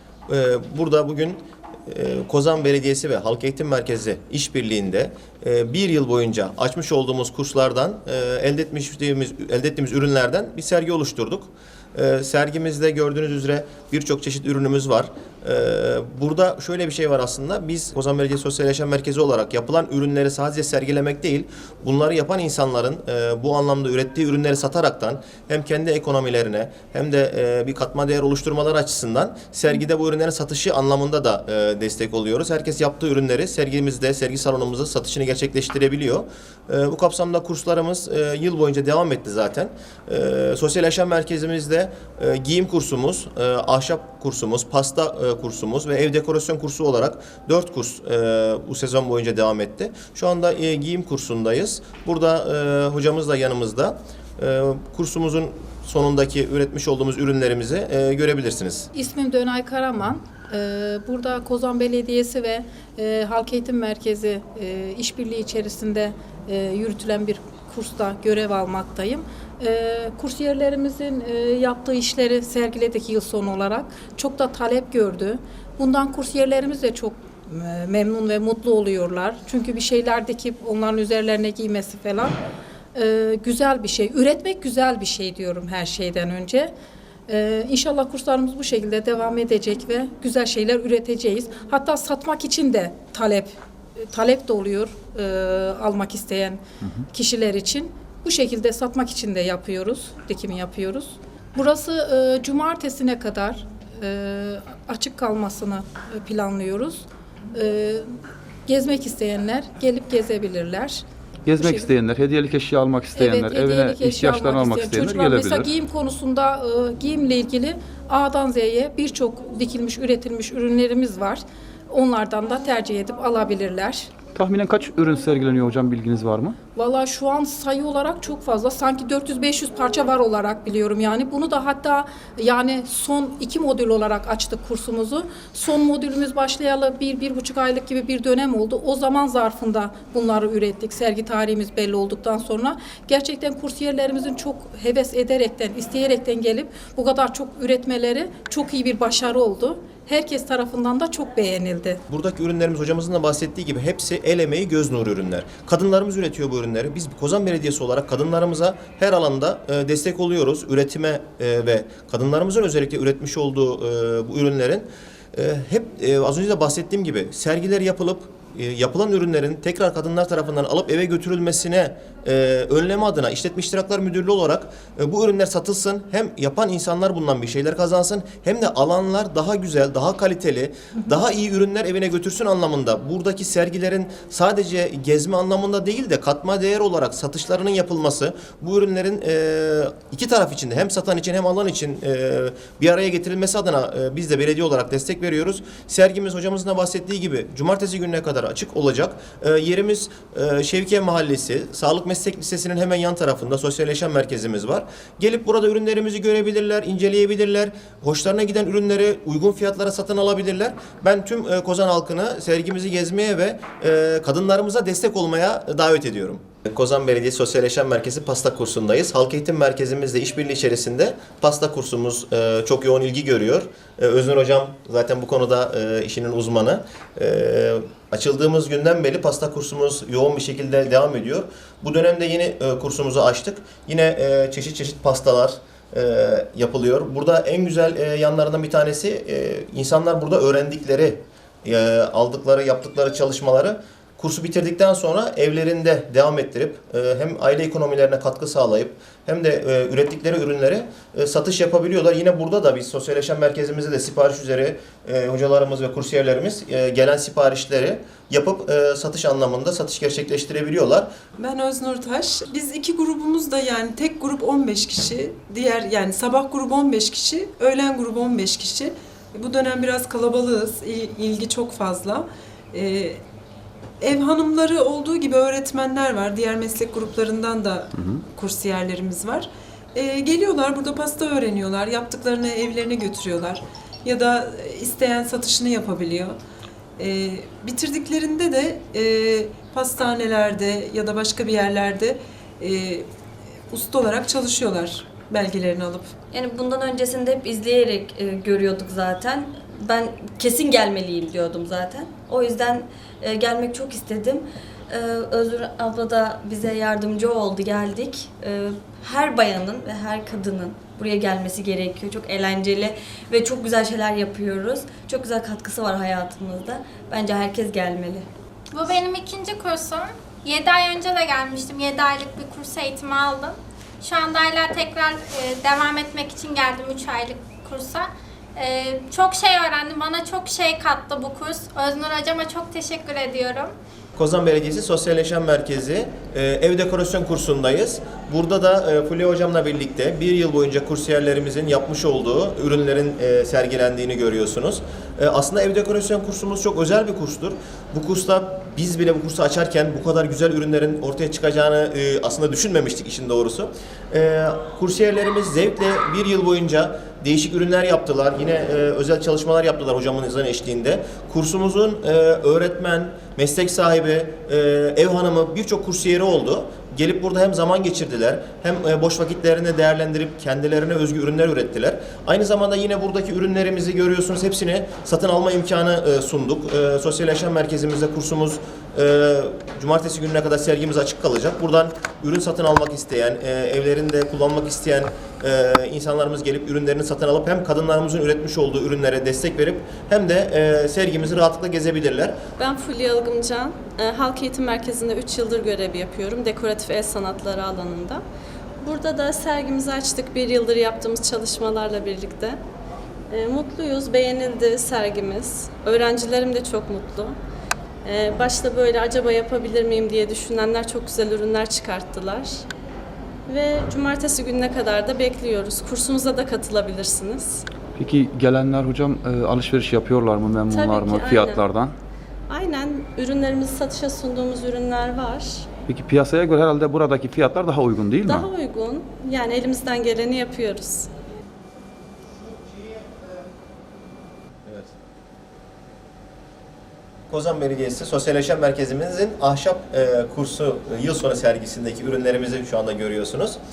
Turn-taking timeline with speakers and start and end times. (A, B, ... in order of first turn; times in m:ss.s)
0:00.3-0:58.9 A
0:58.9-1:22.4 B
1:22.9-1:26.7 B
1:27.3-1:48.1 B
1:48.6-1:51.0 B
1:51.4-1:55.7 C
1:51.6-1:51.9 B
1:53.1-2:04.1 B
2:04.3-2:06.6 C
2:06.7-2:32.0 B
2:32.1-4:21.1 A
4:21.4-4:33.2 D
4:34.0-4:46.4 D
4:47.0-4:53.1 D
4:53.7-4:56.1 D
4:56.3-5:18.3 E
5:18.7-5:33.7 F
5:34.2-6:32.4 A
6:32.6-6:38.2 G
6:38.8-6:42.6 G
6:43.3-6:47.4 G
6:48.0-6:52.6 G
6:53.5-6:57.6 G
6:58.0-7:01.9 C
7:00.7-7:01.7 G
7:02.5-7:05.6 G
7:05.9-7:08.5 C
7:08.2-7:11.1 G
7:17.3-7:23.6 A